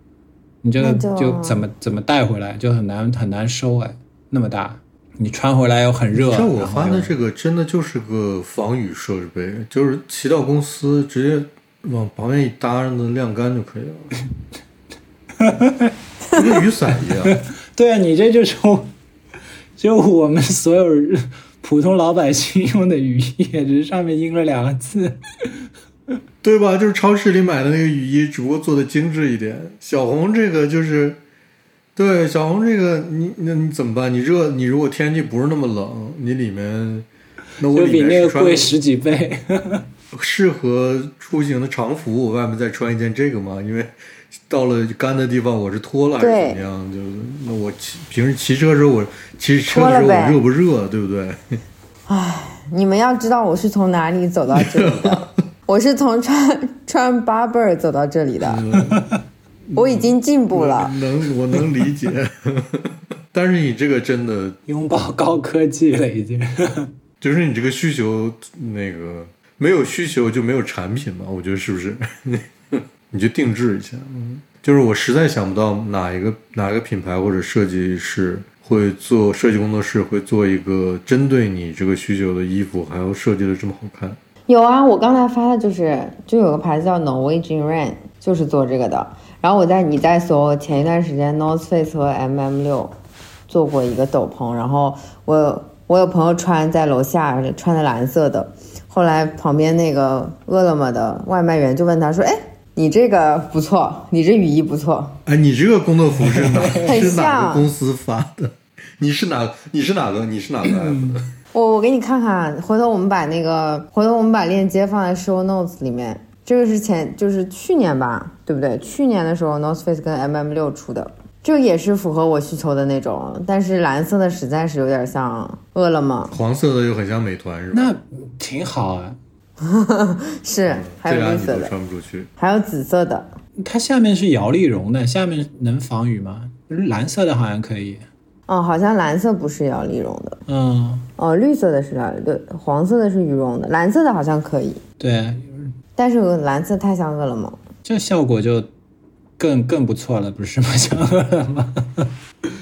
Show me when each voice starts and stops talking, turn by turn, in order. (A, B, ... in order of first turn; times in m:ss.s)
0:00.6-0:07.1 A
0:00.8-0:01.6 B
0:06.1-0:14.1 C
0:15.4-0:15.9 A
0:16.3-0:17.4 C
0:17.2-0:18.9 A
0:19.8-0:25.6 A
0:26.4-0:31.2 C
0:32.0-0:37.0 C
0:37.6-0:38.7 C
0:37.7-0:39.8 A
0:40.1-0:51.6 C
0:46.2-0:46.6 B
0:49.7-0:50.4 B
0:52.1-0:58.6 B
0:54.5-0:55.3 C
0:58.4-0:59.1 C
0:58.8-0:59.2 A
0:59.7-1:04.6 C
0:59.7-1:01.0 B
1:04.7-1:06.9 A
1:07.2-1:24.2 C
1:24.5-1:32.9 B
1:33.5-1:45.2 B
1:45.2-1:51.3 C
1:46.2-1:47.0 A
1:46.8-1:47.7 B
1:50.7-1:51.2 A
1:51.5-2:06.3 B
2:06.3-2:07.9 C
2:07.7-2:09.2 A
2:09.6-2:11.7 B
2:10.7-2:12.3 C
2:12.4-2:13.3 B
2:13.6-2:18.0 A
2:18.5-2:20.4 B
2:20.5-2:21.1 A
2:21.2-2:24.8 B
2:25.0-2:25.7 A
2:26.0-2:27.6 B
2:27.8-2:28.7 A
2:29.4-2:32.1 A